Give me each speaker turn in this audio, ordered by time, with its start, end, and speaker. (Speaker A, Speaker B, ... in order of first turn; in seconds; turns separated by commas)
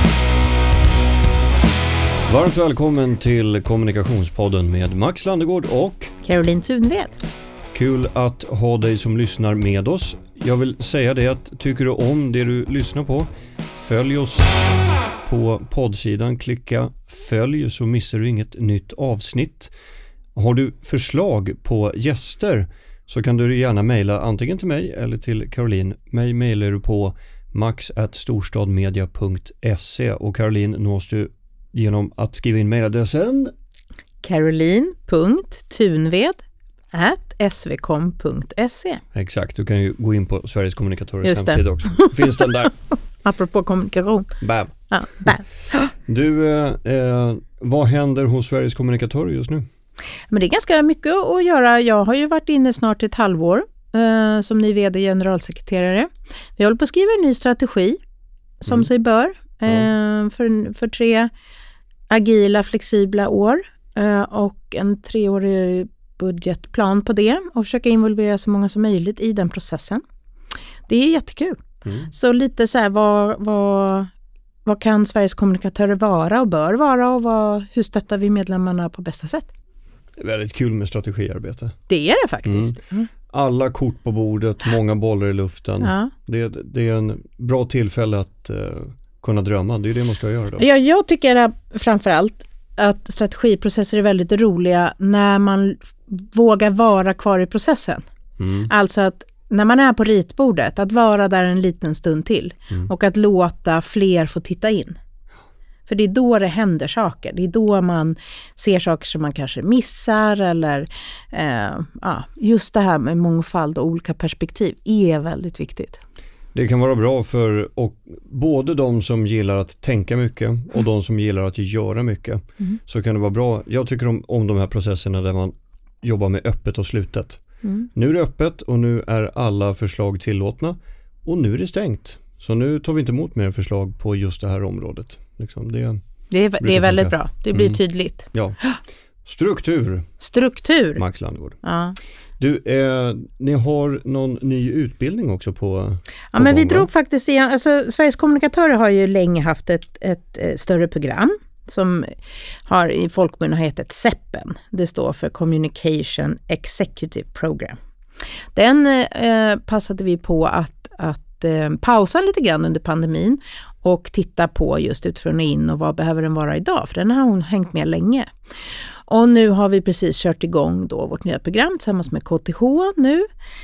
Speaker A: 2.3-6.1, Speaker B: 6.2-7.2, Speaker A: 7.7-14.6, Speaker A: 15.2-19.7, Speaker A: 20.4-33.5, Speaker B: 34.2-36.4, Speaker B: 36.9-39.0, Speaker A: 39.1-42.8, Speaker B: 41.2-44.3, Speaker A: 44.4-44.7, Speaker B: 44.9-45.9, Speaker A: 46.1-49.6, Speaker B: 50.3-58.0, Speaker B: 58.6-61.3, Speaker B: 62.1-70.0, Speaker B: 70.9-74.1, Speaker B: 74.7-79.5, Speaker A: 80.2-81.8, Speaker B: 81.9-83.1, Speaker A: 82.5-82.7, Speaker A: 83.3-90.7, Speaker B: 85.8-86.1, Speaker B: 90.6-98.1, Speaker A: 98.4-98.7, Speaker B: 98.7-105.0, Speaker B: 105.9-116.0, Speaker A: 116.5-136.1, Speaker B: 136.3-138.8, Speaker A: 136.6-138.6, Speaker A: 139.2-140.2, Speaker B: 140.2-141.0, Speaker A: 140.9-141.6, Speaker B: 141.6-142.0, Speaker A: 142.4-146.9, Speaker B: 146.3-157.8, Speaker B: 158.6-168.3, Speaker B: 169.1-173.3